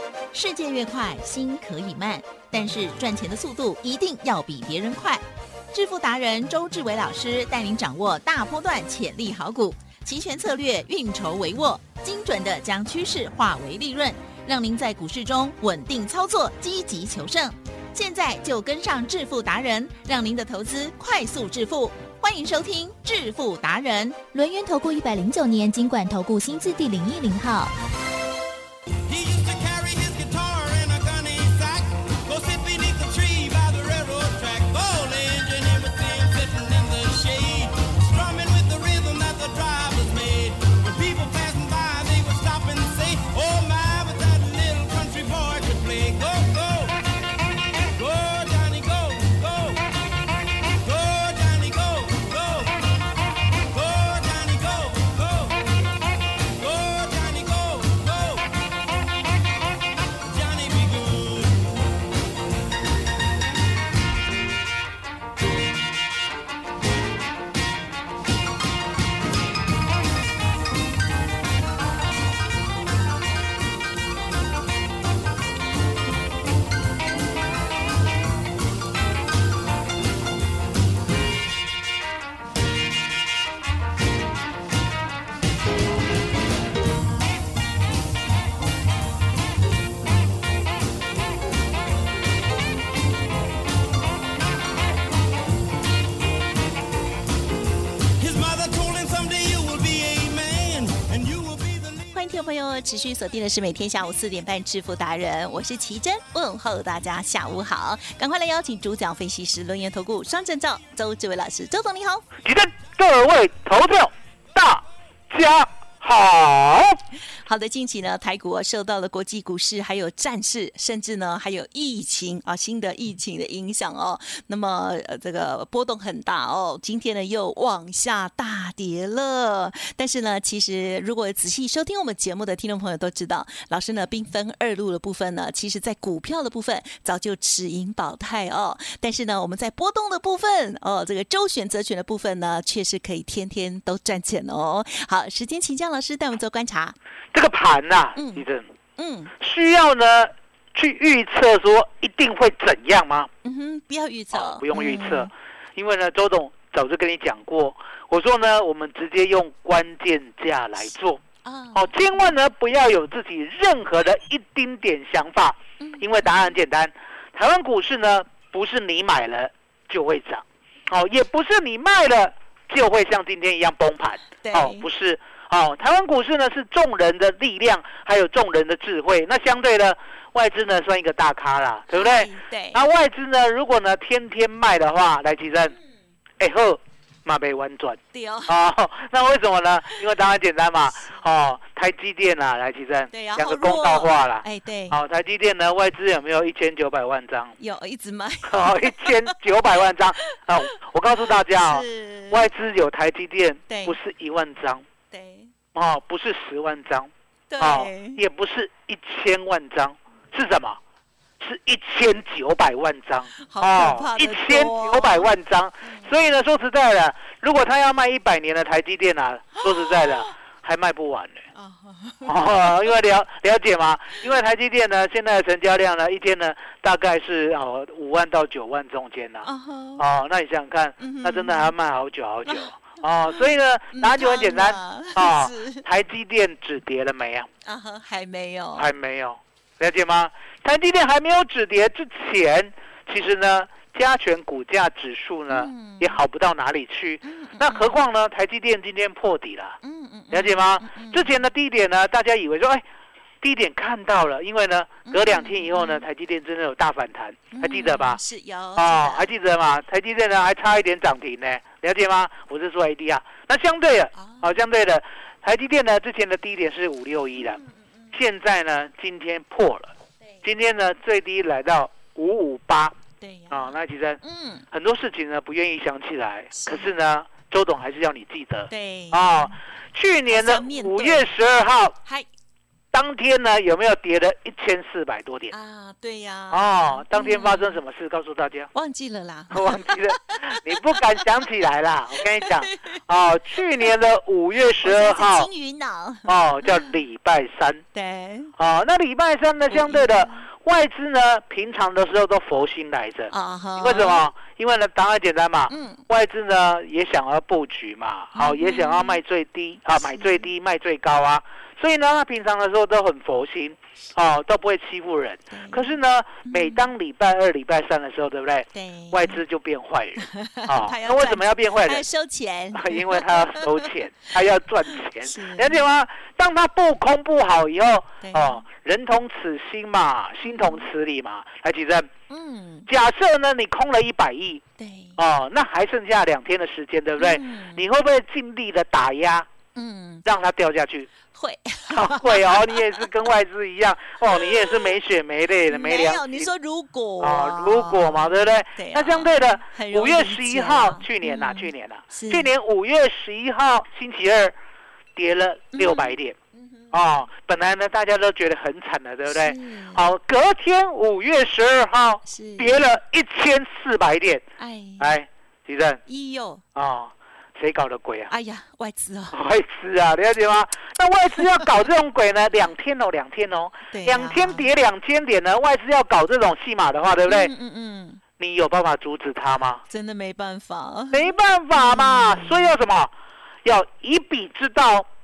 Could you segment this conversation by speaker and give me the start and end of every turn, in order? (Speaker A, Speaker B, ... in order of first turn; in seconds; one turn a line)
Speaker A: 0.3-24.8
Speaker B: 24.5-27.7
Speaker C: 29.1-47.0
Speaker C: 47.9-49.9
Speaker C: 50.6-52.9
Speaker C: 53.7-55.7
Speaker C: 56.5-58.6
Speaker C: 60.2-61.7
Speaker C: 98.2-102.1
Speaker D: 102.1-112.2
Speaker E: 112.4-117.0
Speaker D: 117.4-146.9
Speaker E: 147.3-148.7
Speaker D: 148.2-148.4
Speaker D: 149.0-149.3
Speaker E: 149.4-153.3
Speaker D: 153.4-155.3
Speaker E: 154.3-161.2
Speaker D: 161.4-162.3
Speaker E: 161.7-185.8
Speaker D: 165.8-166.5
Speaker D: 174.4-174.8
Speaker D: 181.9-182.8
Speaker E: 186.4-197.5
Speaker D: 188.1-188.5
Speaker D: 193.1-195.0
Speaker D: 197.6-199.3
Speaker E: 198.4-204.8
Speaker D: 201.2-202.5
Speaker D: 203.7-204.0
Speaker D: 205.1-205.5
Speaker E: 205.7-210.8
Speaker D: 207.5-208.2
Speaker E: 211.4-221.4
Speaker D: 213.4-216.1
Speaker D: 219.6-220.3
Speaker D: 221.5-223.0
Speaker E: 222.2-237.5
Speaker D: 229.4-230.0
Speaker D: 231.0-231.7
Speaker D: 232.4-235.8
Speaker D: 237.6-238.9
Speaker E: 238.8-249.8
Speaker D: 245.5-246.2
Speaker D: 247.2-248.0
Speaker D: 249.8-251.4
Speaker E: 250.3-252.8
Speaker E: 253.4-258.2
Speaker D: 255.1-256.0
Speaker D: 257.5-259.3
Speaker E: 258.8-267.6
Speaker D: 264.1-264.6
Speaker D: 267.4-268.1
Speaker E: 268.1-269.9
Speaker E: 270.4-272.9
Speaker D: 273.2-274.6
Speaker E: 273.5-282.0
Speaker D: 276.6-276.9
Speaker D: 278.7-279.6
Speaker D: 280.3-281.3
Speaker E: 282.9-285.5
Speaker D: 285.5-287.8
Speaker E: 286.5-288.7
Speaker D: 288.7-291.4
Speaker E: 289.5-295.5
Speaker D: 292.2-293.0
Speaker D: 293.5-293.9
Speaker D: 294.8-297.0
Speaker E: 296.2-297.8
Speaker D: 297.9-298.5
Speaker E: 298.6-322.0
Speaker D: 299.7-300.4
Speaker D: 303.3-304.3
Speaker D: 305.7-306.0
Speaker D: 308.3-309.2
Speaker D: 309.9-310.5
Speaker D: 315.5-316.8
Speaker D: 318.7-319.4
Speaker D: 320.2-323.9
Speaker E: 322.7-332.1
Speaker D: 325.2-325.8
Speaker D: 328.2-328.6
Speaker D: 330.4-330.9
Speaker D: 332.3-332.9
Speaker E: 332.9-334.6
Speaker D: 334.8-335.2
Speaker E: 335.2-339.5
Speaker D: 337.2-337.8
Speaker D: 339.7-340.2
Speaker E: 340.2-341.1
Speaker D: 341.3-343.3
Speaker E: 341.9-346.5
Speaker D: 344.2-345.0
Speaker D: 345.7-352.5
Speaker E: 347.2-354.5
Speaker E: 355.1-356.4
Speaker D: 355.7-357.2
Speaker E: 356.9-364.4
Speaker D: 359.3-360.0
Speaker D: 362.2-362.8
Speaker D: 364.6-365.1
Speaker E: 365.0-366.0
Speaker D: 366.1-366.6
Speaker E: 366.7-368.3
Speaker D: 368.3-369.4
Speaker E: 369.3-377.5
Speaker D: 373.9-374.7
Speaker D: 377.2-378.2
Speaker E: 378.4-379.8
Speaker D: 379.9-382.7
Speaker E: 381.1-383.1
Speaker E: 383.6-385.1